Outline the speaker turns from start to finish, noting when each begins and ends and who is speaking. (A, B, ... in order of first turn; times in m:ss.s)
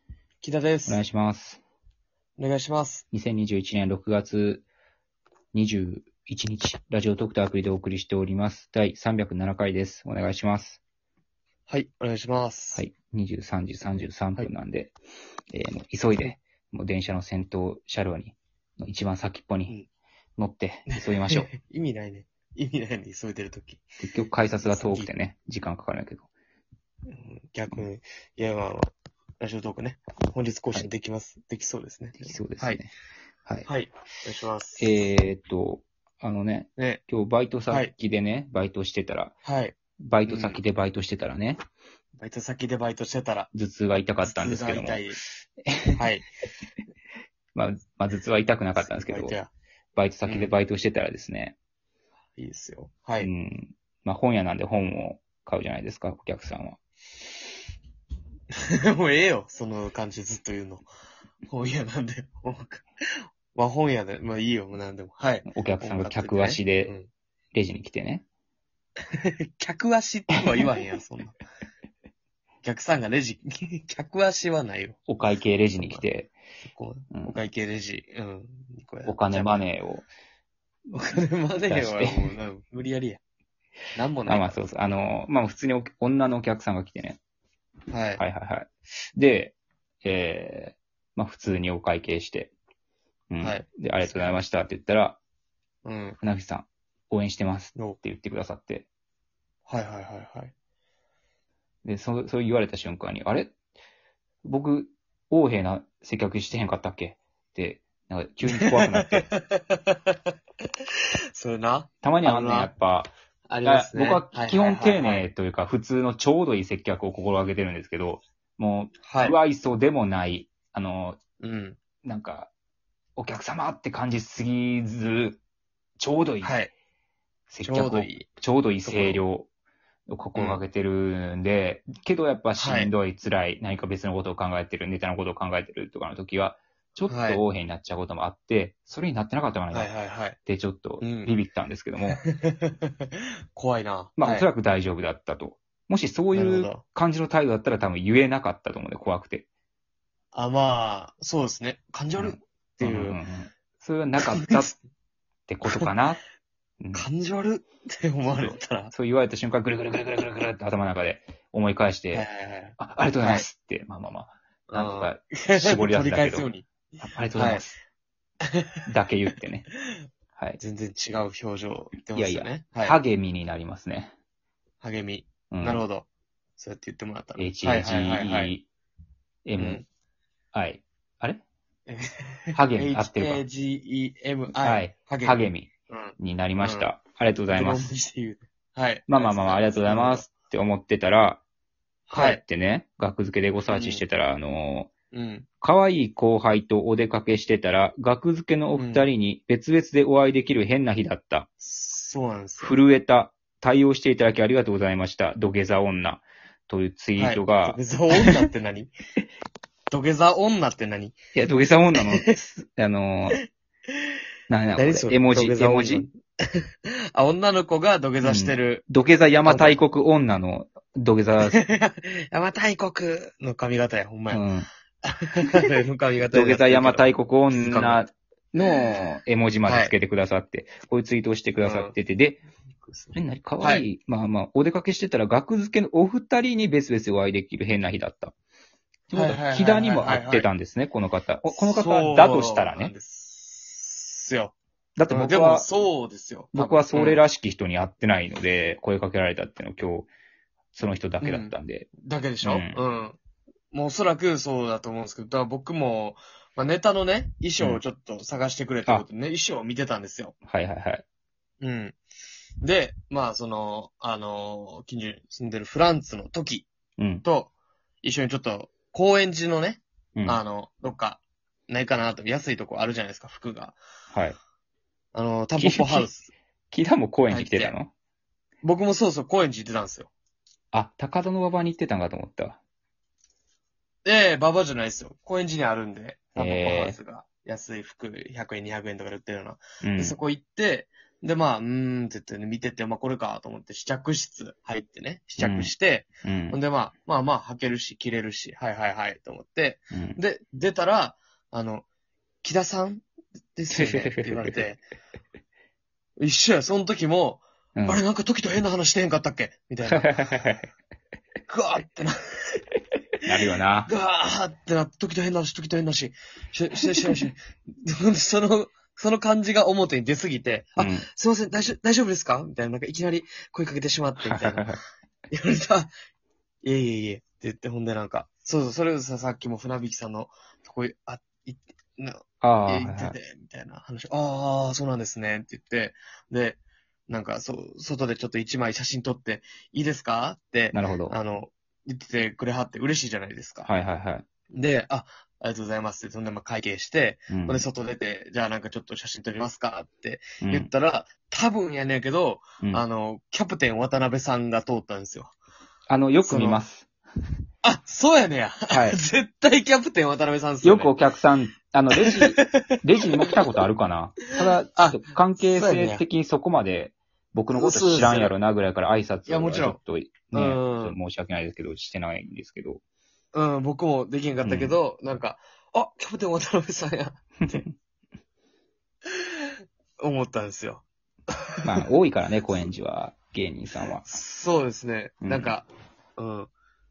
0:00.4-0:01.0 A
0:00.9-0:01.6 B
0:02.4-0:03.0 A
0:03.1-0:04.6 B
0:05.5-0:10.8 B
0:11.7-0:12.8 A
0:12.8-0:15.0 B
0:15.5-0:19.7 B
0:20.4-0:21.5 B
0:20.9-0:23.8 A
0:24.0-0:26.3 B
0:24.6-0:25.1 A
0:27.1-0:28.9 A
0:29.4-0:32.8 A
0:32.2-0:32.9 B
0:33.7-0:34.9 A
0:34.8-0:39.4 B
0:36.8-0:37.0 A
0:39.4-0:40.6 A
0:40.0-0:41.6 B
0:42.2-0:43.5 A
0:43.5-0:45.1 B
0:44.2-0:45.2 A
0:45.6-0:46.0 B
0:46.0-0:46.2 A
0:47.6-0:49.4 B
0:48.8-0:49.5 A
0:50.0-0:51.6 B
0:50.2-0:50.5 A
0:52.4-0:53.3 A
0:53.2-0:56.8 B
0:58.7-1:00.9 A
1:01.5-1:02.9 A
1:03.5-1:07.1 A
1:05.5-1:06.9 B
1:07.5-1:08.2 B
1:09.1-1:11.4 A
1:12.6-1:15.0 A
1:15.1-1:16.3 B
1:15.8-1:16.1 A
1:16.7-1:19.6 A
1:17.1-1:17.4 B
1:19.0-1:20.1 B
1:20.9-1:23.2 A
1:21.7-1:22.3 B
1:23.9-1:24.6 A
1:24.3-1:27.2 B
1:27.9-1:28.2 A
1:28.2-1:32.5 B
1:33.3-1:35.2 B
1:33.4-1:34.4 A
1:35.8-1:36.2 A
1:36.2-1:38.9 B
1:39.7-1:40.5 A
1:41.8-1:43.6 B
1:44.4-1:49.3 B
1:48.5-1:50.2 A
1:51.4-1:52.7 A
1:52.0-1:53.1 B
1:53.5-1:55.3 A
1:53.6-2:01.2 B
1:59.0-1:59.4 A
2:01.4-2:01.8 A
2:02.0-2:02.5 B
2:03.2-2:05.4 B
2:06.0-2:06.6 B
2:06.4-2:06.7 A
2:07.5-2:09.5 B
2:07.6-2:08.3 A
2:08.8-2:09.2 A
2:10.1-2:19.9 B
2:10.4-2:10.6 A
2:12.6-2:12.9 A
2:17.1-2:17.4 A
2:19.7-2:20.4 A
2:20.4-2:22.2 B
2:21.0-2:21.3 A
2:22.1-2:24.5 A
2:24.2-2:29.5 B
2:26.3-2:26.8 A
2:30.3-2:33.2 A
2:32.2-2:34.7 B
2:34.2-2:34.8 A
2:35.5-2:36.2 B
2:36.8-2:37.1 B
2:36.9-2:38.9 A
2:38.3-2:42.3 B
2:42.1-2:43.4 A
2:42.8-2:46.5 B
2:44.7-2:47.6 A
2:47.0-2:47.7 B
2:48.9-2:49.7 B
2:50.6-2:53.0 A
2:52.1-2:54.1 B
2:54.8-2:58.5 A
2:55.5-2:55.8 B
2:57.4-2:58.7 B
2:59.4-2:59.8 B
2:59.6-2:59.8 A
3:00.5-3:01.4 B
3:01.9-3:06.9 A
3:02.5-3:03.4 B
3:04.6-3:07.9 B
3:07.5-3:10.3 A
3:09.1-3:11.4 B
3:12.1-3:12.4 A
3:12.1-3:14.9 B
3:13.7-3:14.0 A
3:15.1-3:15.5 A
3:15.6-3:21.5 B
3:18.8-3:19.1 A
3:21.6-3:22.7 A
3:22.6-3:28.4 B
3:27.2-3:28.9 A
3:29.9-3:31.2 A
3:31.3-3:33.4 B
3:32.0-3:32.4 A
3:34.5-3:36.1 B
3:34.8-3:38.8 A
3:38.2-3:41.6 B
3:39.4-3:39.8 A
3:41.4-3:44.4 A
3:44.3-3:44.7 B
3:45.0-3:48.0 A
3:46.3-3:52.4 B
3:49.6-3:49.9 A
3:51.6-3:51.9 A
3:52.9-3:53.9 A
3:53.1-3:58.3 B
3:59.1-4:02.9 B
3:59.1-4:00.5 A
4:01.6-4:04.6 A
4:05.0-4:05.7 B
4:05.1-4:07.2 A
4:06.5-4:10.1 B
4:10.7-4:12.8 B
4:11.2-4:13.2 A
4:13.7-4:20.3 A
4:20.4-4:21.0 B
4:21.6-4:22.0 A
4:22.6-4:26.7 A
4:27.0-4:27.2 B
4:27.2-4:27.5 A
4:28.0-4:33.8 A
4:34.1-4:34.4 B
4:35.1-4:36.3 A
4:35.6-4:36.1 B
4:36.7-4:37.9 B
4:37.3-4:37.8 A
4:38.6-4:40.1 A
4:40.7-4:42.6 B
4:44.0-5:01.8 A
4:46.4-4:47.0 B
4:49.8-4:50.2 B
4:55.4-4:55.7 B
4:56.2-4:56.6 B
4:59.9-5:00.2 B
5:02.4-5:03.0 A
5:03.6-5:04.8 A
5:03.7-5:04.6 B
5:06.2-5:10.1 A
5:07.8-5:08.0 B
5:09.9-5:10.7 B
5:11.5-5:12.6 A
5:13.2-5:13.9 B
5:13.9-5:24.7 A
5:20.8-5:21.1 B
5:24.2-5:24.8 B
5:25.3-5:25.9 A
5:26.6-5:43.7 A
5:32.4-5:33.2 B
5:40.7-5:41.2 B
5:43.6-5:44.2 B
5:44.5-5:55.3 A
5:47.3-5:47.6 B
5:50.4-5:50.7 B
5:55.9-5:56.9 B
5:56.2-5:56.6 A
5:57.6-6:00.9 A
5:58.7-5:59.0 B
6:00.6-6:12.8 B
6:02.0-6:02.7 A
6:04.8-6:06.0 A
6:07.5-6:08.4 A
6:09.3-6:09.8 A
6:10.3-6:11.0 A
6:13.3-6:17.6 A
6:14.4-6:14.8 B
6:20.0-6:20.8 A
6:21.6-6:24.0 B
6:24.0-6:26.5 A
6:25.2-6:25.5 B